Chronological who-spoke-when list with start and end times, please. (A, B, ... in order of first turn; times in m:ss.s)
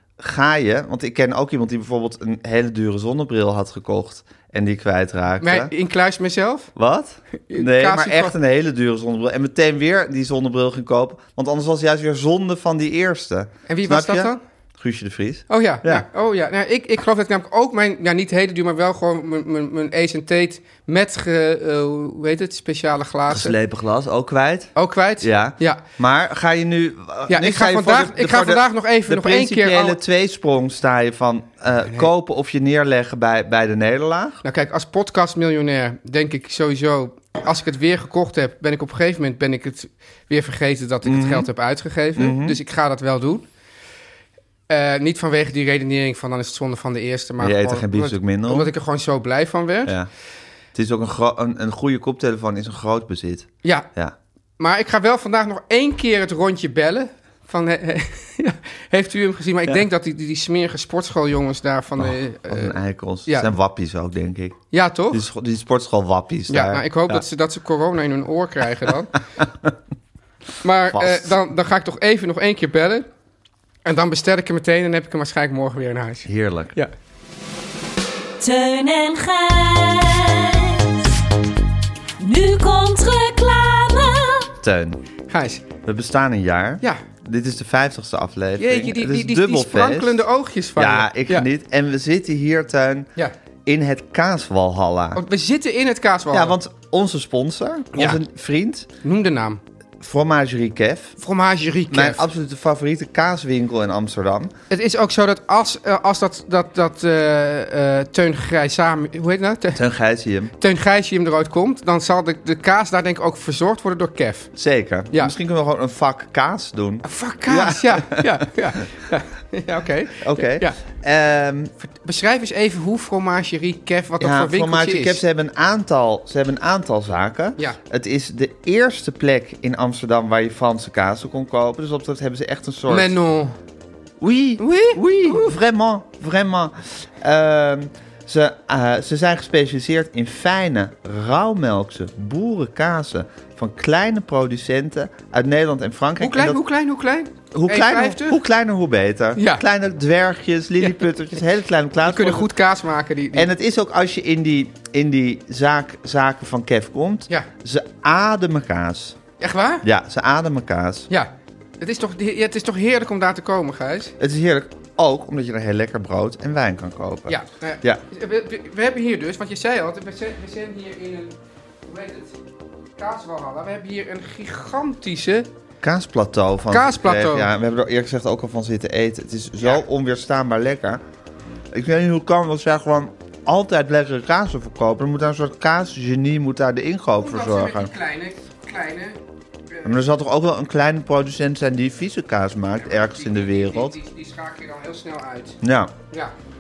0:00.2-0:05.7 A
0:05.4-0:06.7 B
0:06.8-0:16.0 A
0:07.5-0:08.4 B
0:13.7-0:14.4 B
0:15.5-0:23.5 B
0:23.3-0:34.4 A
0:24.8-0:25.8 B
0:27.3-0:30.0 B
0:34.4-0:43.5 B
0:41.0-0:41.5 A
0:42.2-0:42.6 A
0:44.7-0:49.9 B
0:47.4-0:48.7 A
0:50.7-0:54.1 A
0:54.6-1:03.5 B
1:02.0-1:04.6 A
1:04.7-1:05.2 B
1:05.1-1:07.2 A
1:06.5-1:09.1 B
1:10.6-1:13.0 B
1:10.9-1:11.3 A
1:13.8-1:16.9 B
1:16.2-1:16.7 A
1:18.4-1:21.1 C
1:22.2-1:24.5 C
1:24.6-1:25.0 A
1:25.3-1:25.6 B
1:25.8-1:30.2 A
1:28.6-1:31.5 B
1:30.8-1:33.1 A
1:33.6-1:35.2 A
1:35.1-1:36.6 B
1:36.3-1:38.9 A
1:37.9-1:38.2 B
1:39.0-1:39.6 B
1:40.0-1:41.1 A
1:41.2-1:42.2 B
1:41.9-1:44.5 A
1:44.7-1:49.8 B
1:49.7-1:50.5 A
1:50.6-1:54.5 B
1:54.5-1:58.3 A
1:57.0-2:00.8 B
2:00.2-2:01.7 A
2:01.8-2:05.2 B
2:04.2-2:13.1 A
2:12.9-2:13.6 B
2:14.2-2:26.6 A
2:14.6-2:15.5 B
2:26.2-2:28.4 B
2:27.5-2:32.5 A
2:29.4-2:29.6 B
2:32.0-2:33.5 B
2:33.3-2:39.2 A
2:39.4-2:39.8 B
2:39.8-2:41.1 A
2:41.1-2:44.1 B
2:44.2-2:48.0 A
2:47.3-2:52.4 B
2:53.0-2:55.5 B
2:55.8-3:01.0 A
2:56.7-2:57.5 B
3:01.7-3:07.9 A
3:07.2-3:09.2 B
3:09.8-3:14.0 A
3:12.9-3:15.6 B
3:15.6-3:15.9 A